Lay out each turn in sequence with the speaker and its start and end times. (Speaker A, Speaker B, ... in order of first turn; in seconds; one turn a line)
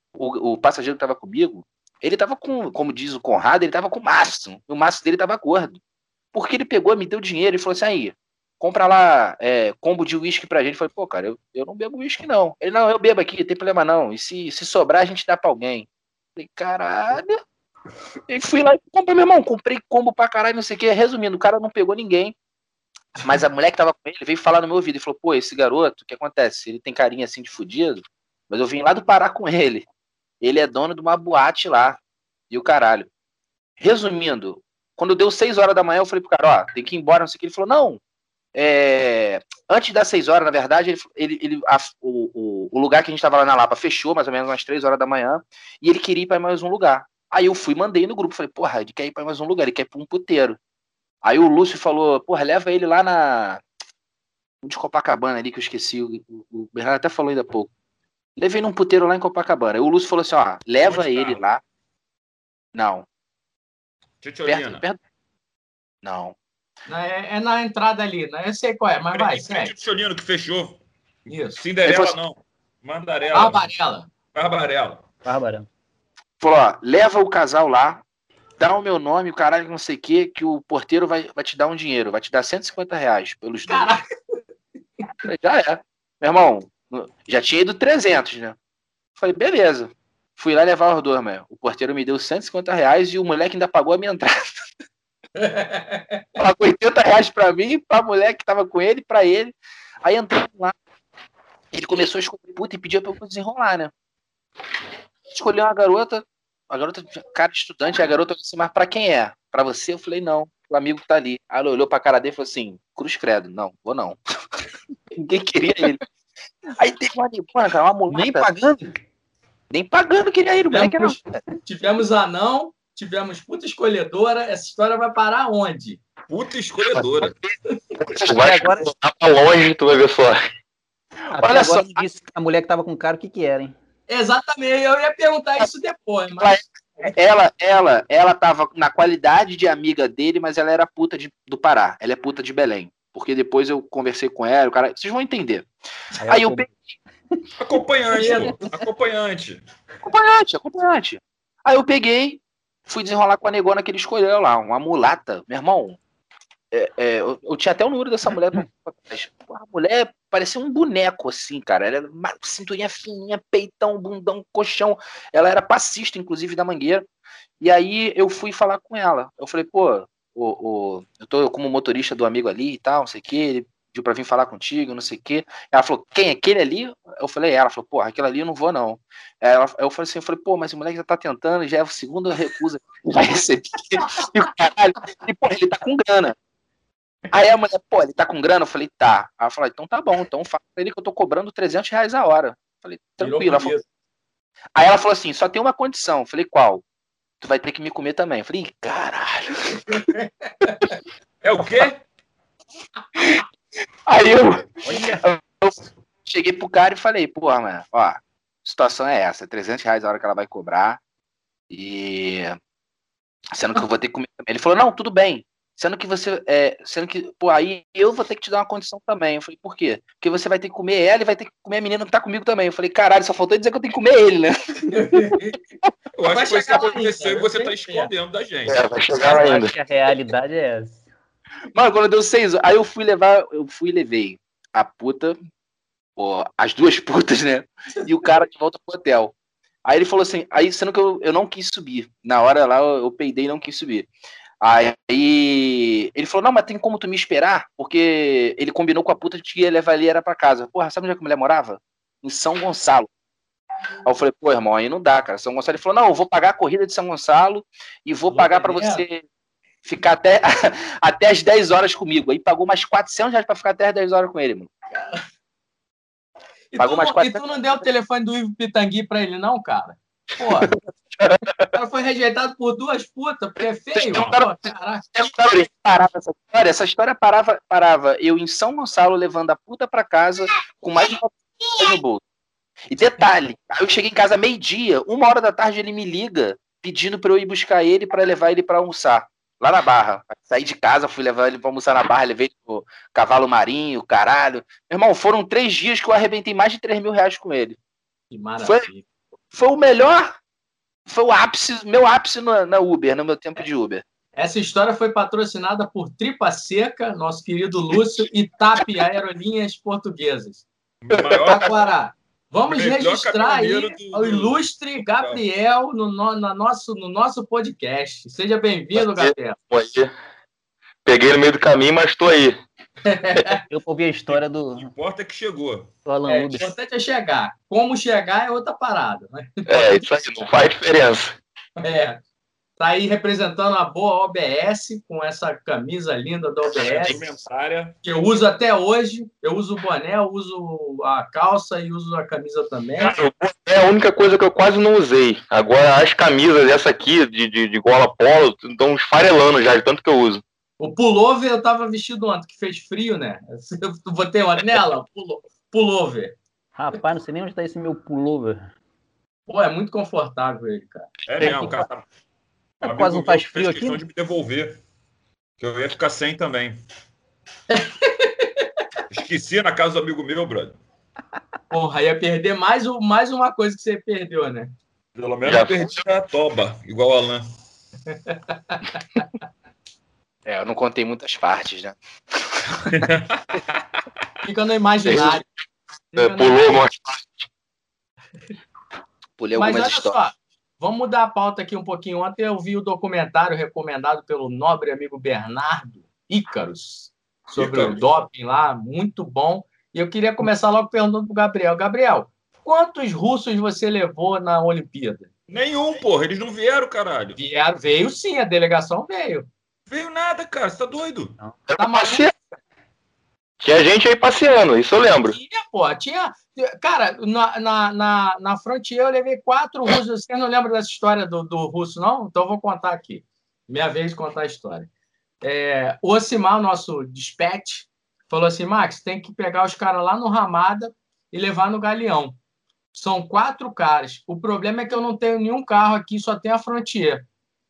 Speaker A: 0.2-5.8
Speaker A: 6.3-17.4
Speaker A: 18.3-22.4
Speaker A: 23.2-29.9
Speaker A: 30.4-32.0
Speaker A: 32.5-33.1
Speaker A: 33.8-38.0
Speaker A: 38.5-50.6
Speaker A: 51.2-53.6
Speaker A: 54.6-57.7
Speaker A: 58.4-61.6
Speaker B: 60.8-61.4
Speaker A: 62.7-63.1
Speaker B: 64.2-64.9
Speaker A: 64.5-65.0
Speaker A: 66.0-66.3
Speaker C: 66.9-69.7
Speaker B: 69.1-70.8
Speaker C: 71.3-71.6
Speaker B: 71.5-73.7
Speaker A: 71.8-72.2
Speaker C: 73.3-74.1
Speaker B: 74.3-75.0
Speaker D: 75.2-75.7
Speaker A: 76.4-78.0
Speaker A: 78.6-84.0
Speaker C: 83.7-84.1
Speaker A: 85.2-88.6
Speaker A: 89.2-94.6
Speaker C: 95.4-96.2
Speaker A: 96.4-100.8
Speaker A: 101.7-103.9
Speaker A: 105.3-114.2
Speaker A: 115.1-116.0
Speaker A: 116.8-118.5
Speaker D: 118.1-119.0
Speaker A: 119.7-121.4
Speaker C: 120.7-126.0
Speaker B: 126.3-127.3
Speaker E: 127.0-130.4
Speaker A: 128.0-128.7
Speaker D: 128.3-128.8
Speaker A: 131.3-132.1
Speaker D: 131.3-133.7
Speaker C: 134.1-137.1
Speaker A: 136.4-145.7
Speaker A: 146.2-146.8
Speaker D: 146.2-146.6
Speaker B: 147.6-149.6
Speaker C: 148.1-148.6
Speaker A: 150.0-156.0
Speaker A: 156.7-167.1
Speaker A: 167.6-186.3
Speaker A: 187.3-193.8
Speaker C: 193.2-193.8
Speaker A: 194.8-196.8
Speaker A: 197.4-200.0
Speaker C: 199.9-201.0
Speaker B: 201.4-202.0
Speaker A: 204.1-211.0
Speaker D: 204.8-205.2
Speaker A: 211.7-212.6
Speaker A: 213.5-224.9
Speaker C: 224.9-225.6
Speaker B: 226.2-228.8
Speaker C: 226.3-228.1
Speaker E: 228.7-229.7
Speaker D: 229.2-231.0
Speaker A: 231.8-235.4
Speaker A: 236.2-239.3
Speaker A: 239.8-244.1
Speaker A: 244.6-253.1
Speaker A: 254.1-259.2
Speaker C: 258.3-259.0
Speaker A: 259.9-264.7
Speaker C: 264.9-265.2
Speaker C: 266.7-270.7
Speaker A: 266.8-267.4
Speaker E: 270.6-271.7
Speaker C: 271.7-275.1
Speaker E: 273.9-274.6
Speaker E: 275.1-275.7
Speaker A: 275.6-282.2
Speaker A: 282.9-297.8
Speaker C: 298.3-299.1
Speaker A: 298.6-298.9
Speaker A: 299.5-300.4
Speaker A: 301.1-304.0
Speaker C: 304.4-310.6
Speaker B: 311.0-311.7
Speaker E: 311.1-311.6
Speaker C: 311.4-319.6
Speaker B: 312.7-314.6
Speaker E: 318.9-320.1
Speaker E: 321.1-322.6
Speaker C: 323.1-323.6
Speaker D: 323.7-324.9
Speaker B: 324.3-325.9
Speaker D: 326.1-326.7
Speaker C: 326.3-330.1
Speaker E: 329.7-331.4
Speaker C: 331.8-332.2
Speaker C: 332.8-337.2
Speaker B: 336.8-337.9
Speaker C: 338.0-343.1
Speaker E: 343.0-350.4
Speaker C: 350.8-356.4
Speaker D: 356.8-358.7
Speaker C: 359.5-361.7
Speaker B: 361.3-362.1
Speaker D: 361.4-361.7
Speaker B: 362.8-364.8
Speaker D: 362.8-364.0
Speaker B: 365.6-366.8
Speaker C: 367.7-368.7
Speaker B: 369.1-370.8
Speaker C: 371.7-374.7
Speaker B: 375.2-377.4
Speaker E: 375.4-376.0
Speaker C: 378.1-379.3
Speaker A: 380.5-382.0
Speaker B: 382.9-383.8
Speaker C: 384.4-385.4
Speaker E: 385.1-385.5
Speaker C: 386.1-386.8
Speaker E: 386.2-387.5
Speaker A: 389.4-390.1
Speaker C: 389.6-405.3
Speaker B: 397.6-398.0
Speaker B: 405.5-407.4
Speaker C: 407.4-409.5
Speaker B: 409.9-411.3
Speaker E: 411.7-412.3
Speaker C: 411.8-412.3
Speaker E: 413.6-415.4
Speaker C: 415.2-424.9
Speaker C: 425.4-432.4
Speaker C: 432.9-437.2